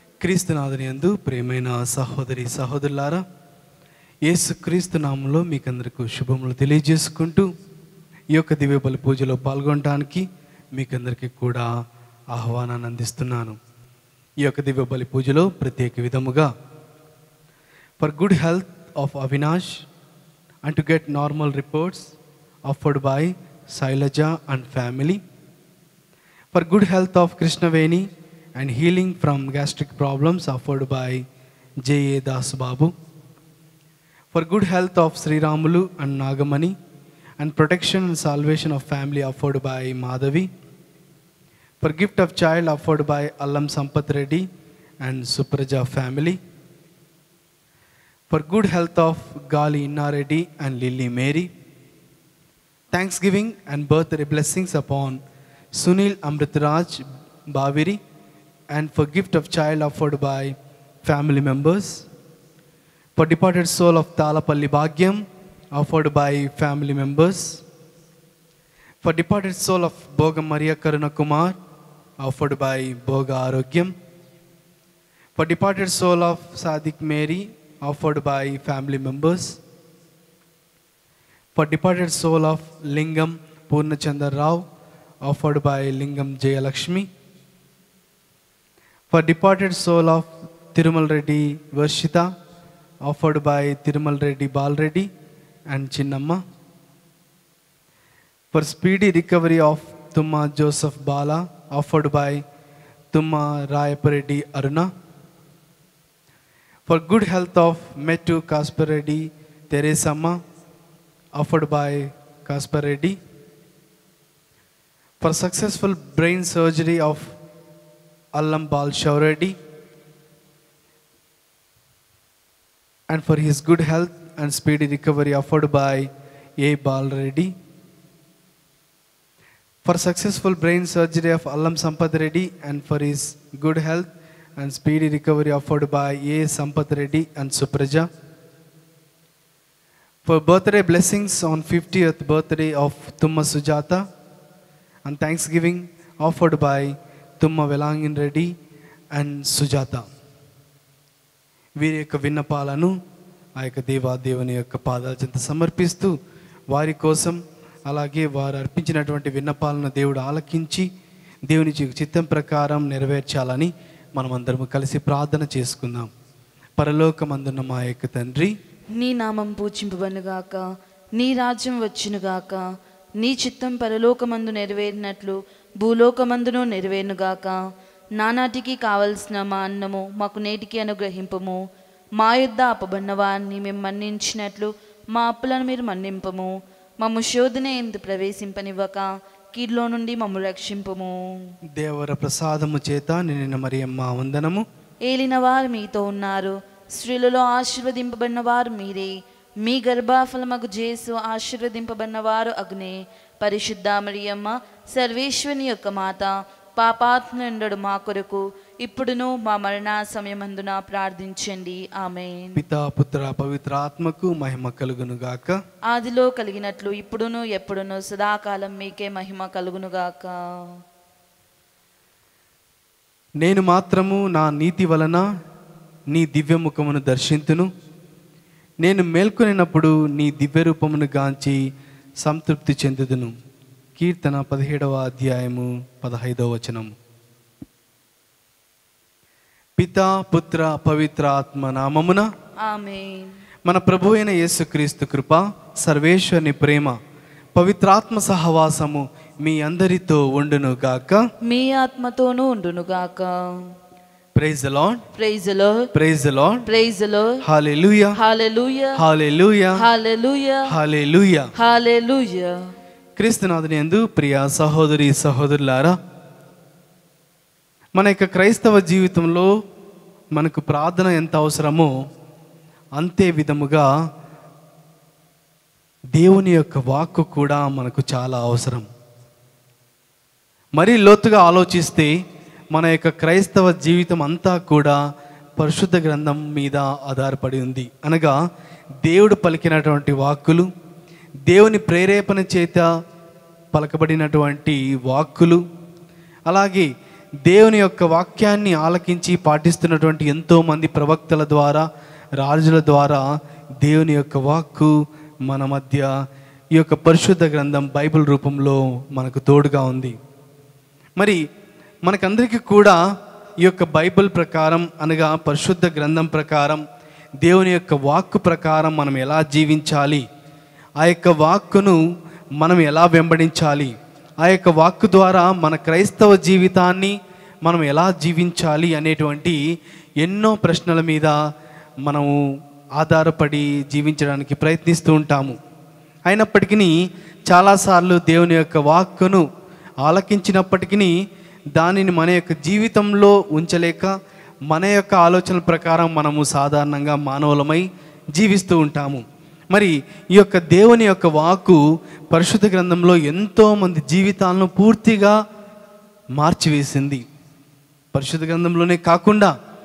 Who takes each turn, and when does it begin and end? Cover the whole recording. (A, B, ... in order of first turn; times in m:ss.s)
0:00.2-0:03.2 A
0:04.2-0:07.5 A
0:08.3-0:11.7 A
0:12.3-0:13.6 A
0:14.4-0:16.5 A
0:18.0-0:19.8 A
0:20.7-0:22.1 A
0:22.7-0:25.2 A
0:26.5-0:31.2 A
0:31.8-0:32.9 A
0:34.3-0:36.8 A
0:37.4-0:40.5 A
0:41.8-0:44.4 A
0:45.0-0:46.4 A
0:48.3-0:51.5 A
0:52.9-0:55.2 A
0:55.7-0:58.0 A
0:58.7-1:02.0 A
1:03.2-1:05.2 A
1:05.7-1:07.6 A
1:09.0-1:11.6 A
1:12.2-1:13.9 A
1:15.4-1:19.6 A
1:21.6-1:24.6 A
1:25.2-1:27.1 A
1:29.1-1:32.3 A
1:33.0-1:35.1 A
1:35.7-1:36.4 A
1:38.5-1:42.4 A
1:43.1-1:44.9 A
1:46.9-1:50.4 A
1:51.4-1:53.2 A
1:55.2-1:57.3 A
1:58.4-1:59.6 A
2:03.1-2:06.1 A
2:06.6-2:07.5 A
2:09.8-2:18.1 A
2:20.2-2:24.0 A
2:25.1-2:28.5 A
2:29.1-2:30.1 A
2:31.8-2:32.9 A
2:33.6-2:36.1 A
2:36.7-2:40.9 A
2:41.5-2:46.1 A
2:46.8-2:48.5 A
2:49.0-2:50.6 B
2:51.2-2:52.6 B
2:53.2-2:57.6 B
2:58.2-3:01.6 B
3:02.2-3:11.4 B
3:11.8-3:14.6 A
3:15.1-3:32.6 B
3:32.6-3:35.6 A
3:35.9-3:40.3 B
3:43.4-3:45.2 A
3:46.1-3:47.7 A
3:48.8-3:51.6 A
3:52.2-3:53.3 A
3:54.0-3:56.9 A
3:59.8-4:02.3 A
4:02.6-4:03.3 B
4:03.7-4:07.0 A
4:07.6-4:11.2 A
4:11.5-4:13.7 B
4:14.4-4:15.0 A
4:15.2-4:15.9 B
4:15.9-4:16.6 A
4:16.7-4:17.4 B
4:17.4-4:18.2 A
4:18.2-4:19.0 B
4:19.0-4:19.8 A
4:19.8-4:20.7 B
4:20.7-4:21.5 A
4:21.6-4:22.7 B
4:23.2-4:26.0 A
4:28.0-4:29.5 A
4:30.3-4:31.9 A
4:33.0-4:33.9 A
4:36.1-4:38.9 A
4:40.8-4:42.1 A
4:42.7-4:45.0 A
4:45.6-4:48.4 A
4:49.0-4:50.7 A
4:51.5-4:52.8 A
4:53.7-4:55.6 A
4:56.5-4:56.9 A
4:57.4-5:01.9 A
5:02.4-5:03.3 A
5:03.8-5:04.9 A
5:05.4-5:06.1 A
5:06.8-5:10.2 A
5:12.0-5:13.0 A
5:13.6-5:16.8 A
5:17.4-5:20.2 A
5:21.0-5:22.0 A
5:22.6-5:29.6 A
5:30.2-5:31.3 A
5:32.0-5:32.3 A
5:33.0-5:35.6 A
5:36.3-5:36.9 A
5:37.5-5:39.4 A
5:40.0-5:41.1 A
5:41.8-5:44.1 A
5:44.7-5:51.8 A
5:52.3-5:55.4 A
5:56.4-5:57.2 A
5:58.1-5:59.5 A